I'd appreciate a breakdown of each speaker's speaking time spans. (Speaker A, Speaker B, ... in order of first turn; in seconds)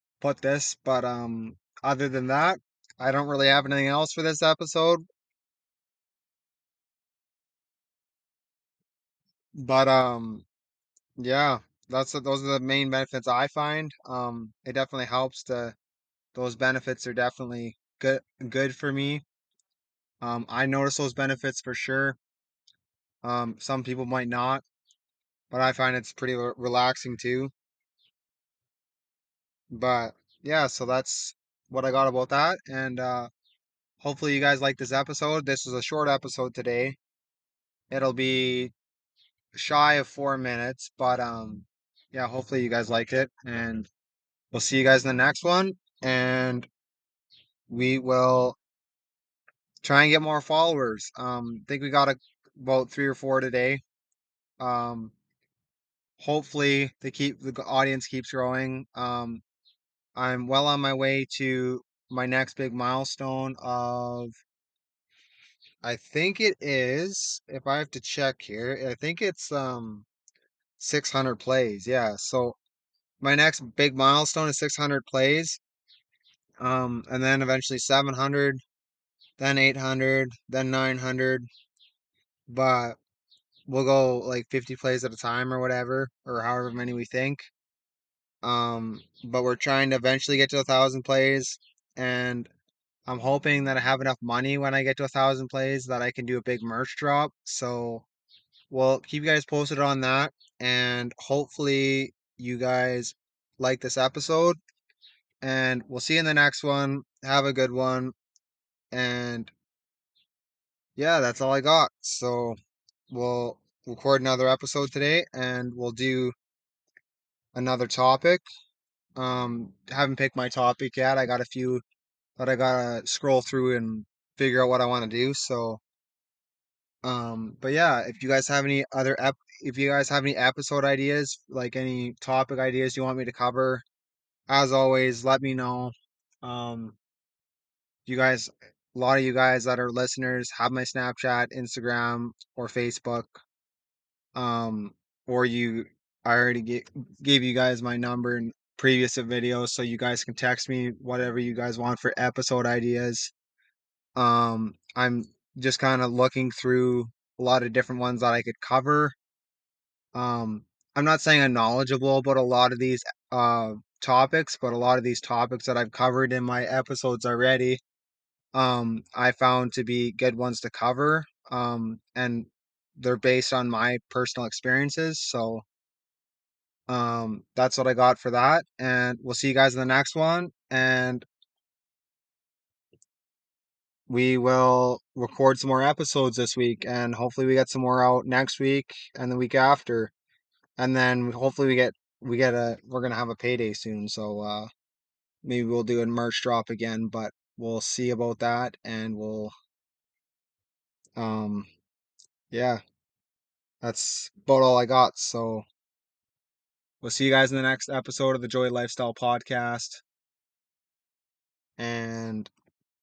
Speaker A: 0.2-5.0, 9.6-10.4, 11.2-15.8, 16.3-19.2, 20.2-22.2, 23.2-24.6, 25.5-27.5, 29.7-33.3, 34.0-37.0, 37.9-38.7, 39.5-43.9, 44.5-46.7, 47.7-48.6, 49.8-53.8, 54.6-55.1, 56.2-59.4, 60.1-64.3, 65.8-70.1, 70.8-72.6, 73.2-75.6, 76.6-78.6, 79.4-81.5, 82.5-83.0, 83.7-87.5, 88.4-92.5, 93.1-98.1, 98.7-104.6, 105.4-108.1, 108.9-109.5, 111.0-112.6, 113.1-116.3, 117.5-118.4, 119.2-121.8, 122.4-125.8, 127.0-133.8, 134.5-137.0, 138.1-143.4, 144.3-153.3, 154.2-159.2, 160.1-167.8, 168.5-175.6, 176.9-181.3, 184.1-190.1, 190.8-194.7, 195.4-199.5, 201.2-201.7, 202.5-202.8, 203.8-205.7, 207.0-210.0, 211.8-212.5